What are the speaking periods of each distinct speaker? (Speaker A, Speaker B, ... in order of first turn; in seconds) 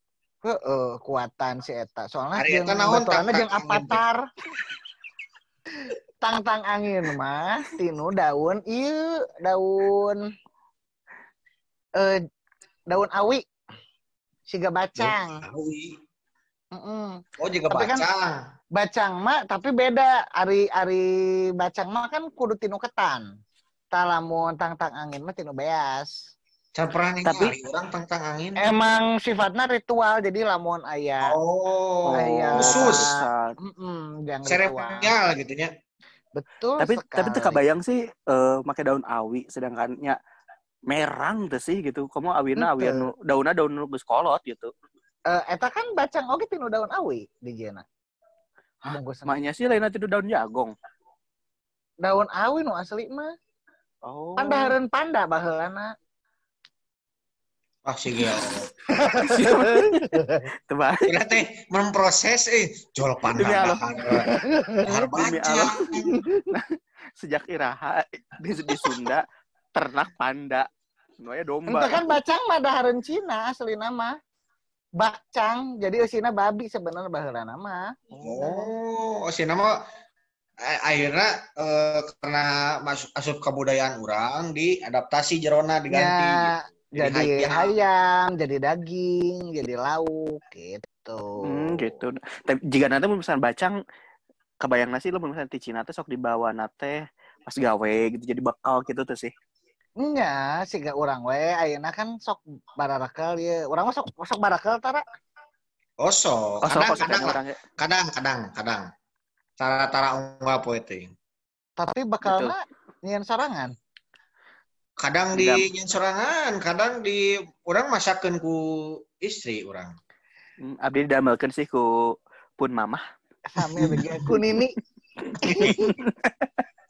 Speaker A: 0.4-4.2, 6.2-10.2, 12.9-13.4, 14.5-15.4, 16.7-18.1, 18.8-23.3, 23.9-26.1, 28.6-31.4, 32.1-35.1, 36.4-37.6, 42.6-43.1, 45.3-47.9, 48.9-49.4, 52.0-53.3, 54.4-55.9, 58.9-60.5, 64.1-64.9, 66.1-66.5, 71.7-74.2, 75.0-78.7, 85.9-92.0, 100.0-105.0, 111.8-113.7, 123.5-124.8, 125.4-126.0
Speaker B: 2.4-4.0, 15.0-16.0, 17.4-18.4, 26.8-28.7, 31.2-33.1, 34.5-35.7, 57.9-58.7, 61.1-64.3, 64.8-66.1, 78.2-79.8, 80.6-87.7, 106.0-108.9, 109.6-111.1, 115.0-120.0, 123.8-124.1
Speaker C: 32.1-33.5, 36.8-40.2, 40.9-44.7, 49.3-50.7, 54.0-54.8, 59.2-61.1, 63.4-63.8, 64.9-65.9, 66.5-70.7, 71.2-72.1, 91.4-93.8, 94.6-99.3, 106.6-107.6, 112.2-112.5, 115.3-115.7, 120.6-123.0, 125.2-126.5